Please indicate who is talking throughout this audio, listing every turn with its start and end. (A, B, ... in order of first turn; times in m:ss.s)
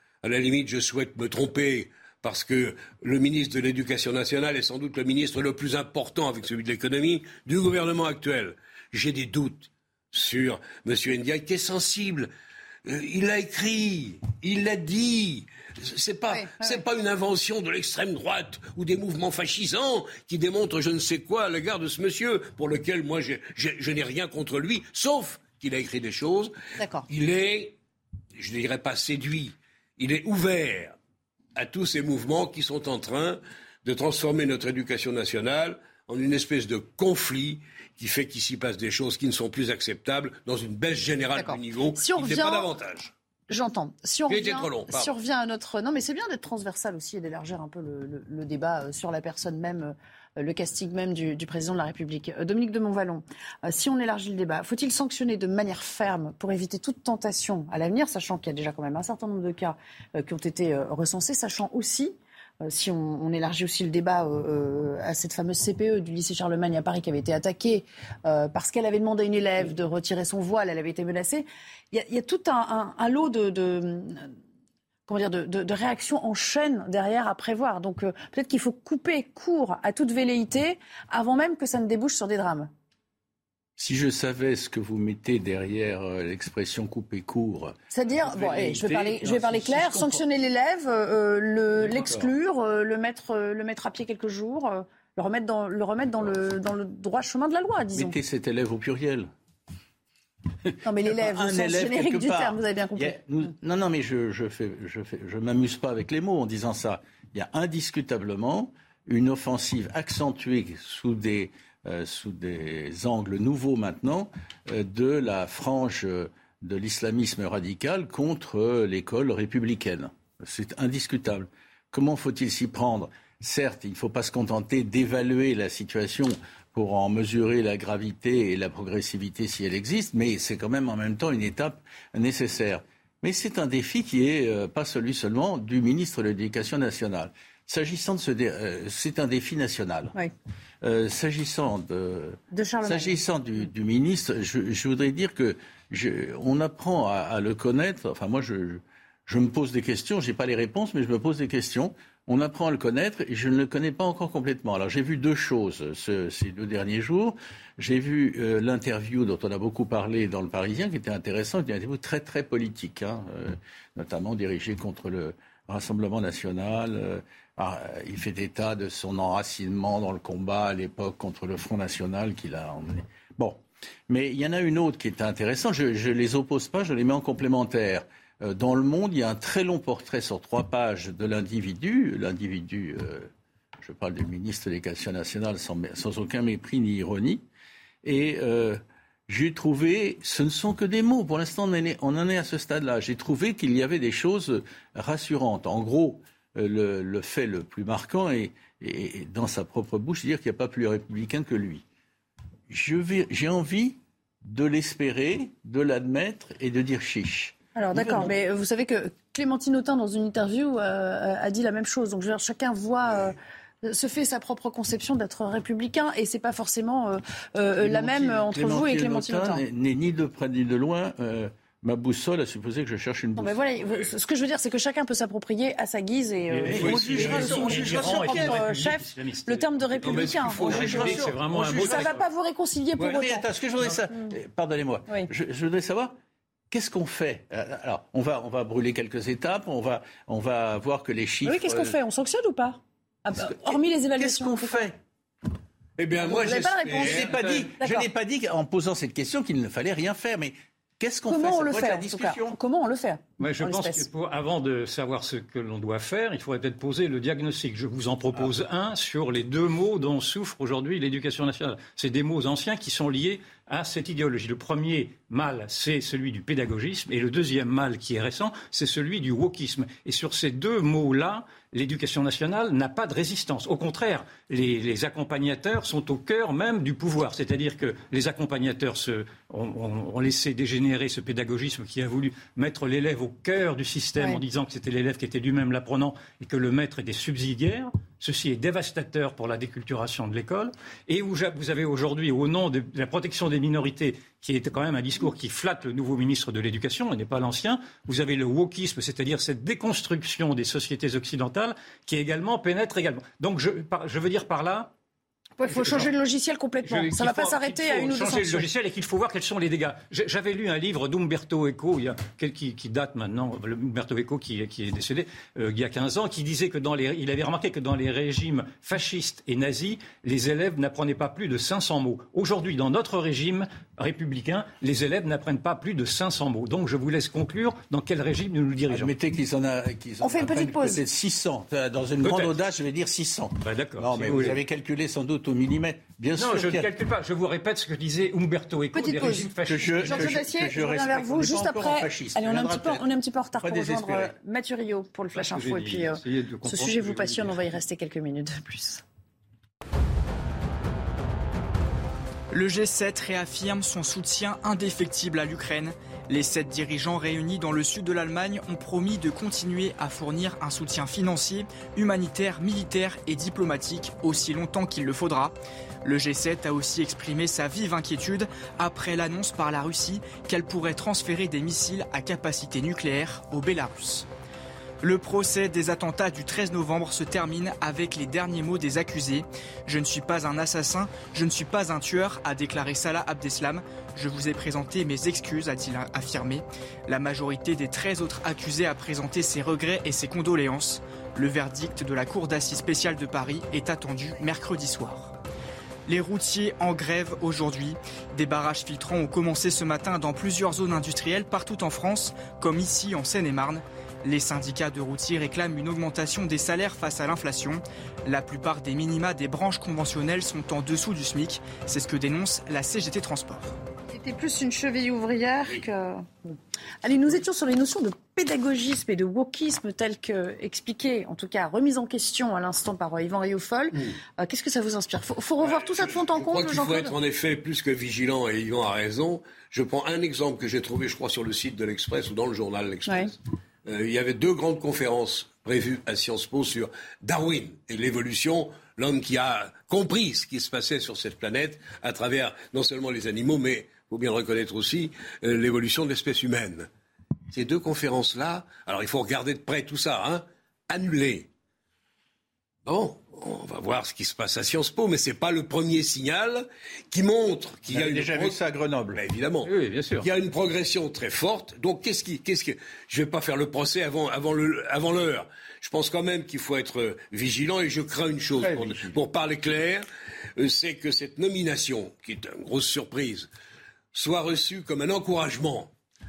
0:00.2-0:12.3 A
0:12.9-0:26.5 A
0:16.3-0:16.8 B
0:26.8-0:27.1 B
0:27.1-0:27.8 A
0:28.4-0:31.0 A
0:31.6-0:43.1 A
0:41.4-0:42.7 B
0:43.5-1:14.3 B
0:44.3-0:45.1 A
1:15.1-1:22.7 B
1:23.8-1:30.2 C
1:27.9-1:38.2 B
1:31.9-1:32.3 C
1:37.9-1:39.3 C
1:40.8-1:43.5 B
1:41.0-2:20.1 C
2:20.8-3:03.3 C
2:22.5-2:23.2 B
3:03.8-3:07.4 C
3:08.0-3:21.8 C
3:22.7-3:28.3 C
3:27.8-3:39.6 B
3:37.8-3:43.6 C
3:43.4-3:53.5 B
3:46.5-3:52.2 D
3:46.7-3:48.6 C
3:46.7-3:47.6 A
3:50.0-3:51.2 A
3:50.6-3:52.2 C
3:53.0-3:56.2 C
3:56.7-4:02.0 C
4:01.4-4:04.9 B
4:03.4-4:05.0 C
4:06.0-4:07.5 A
4:06.2-4:08.1 B
4:06.9-4:12.6 C
4:11.3-4:14.0 B
4:13.4-5:04.9 D
5:05.6-5:08.7 B
5:05.7-5:06.1 D
5:06.8-5:29.1 D
5:28.9-5:36.9 C
5:30.2-5:31.0 B
5:32.2-5:32.6 D
5:33.6-5:34.6 D
5:36.4-5:40.4 D
5:38.9-5:49.0 B
5:39.6-5:43.1 C
5:43.6-5:44.3 C
5:45.3-5:47.7 D
5:52.5-6:14.3 E
6:15.0-6:35.4 E
6:36.1-6:53.7 E
6:54.1-7:07.2 B
7:05.6-7:26.9 A
7:13.1-7:13.3 B
7:27.5-7:31.5 A
7:32.9-7:38.6 A
7:37.9-7:39.2 C
7:39.1-7:50.0 A
7:39.6-7:40.3 D
7:48.6-7:49.2 C
7:50.6-7:53.5 A
7:54.1-7:55.9 A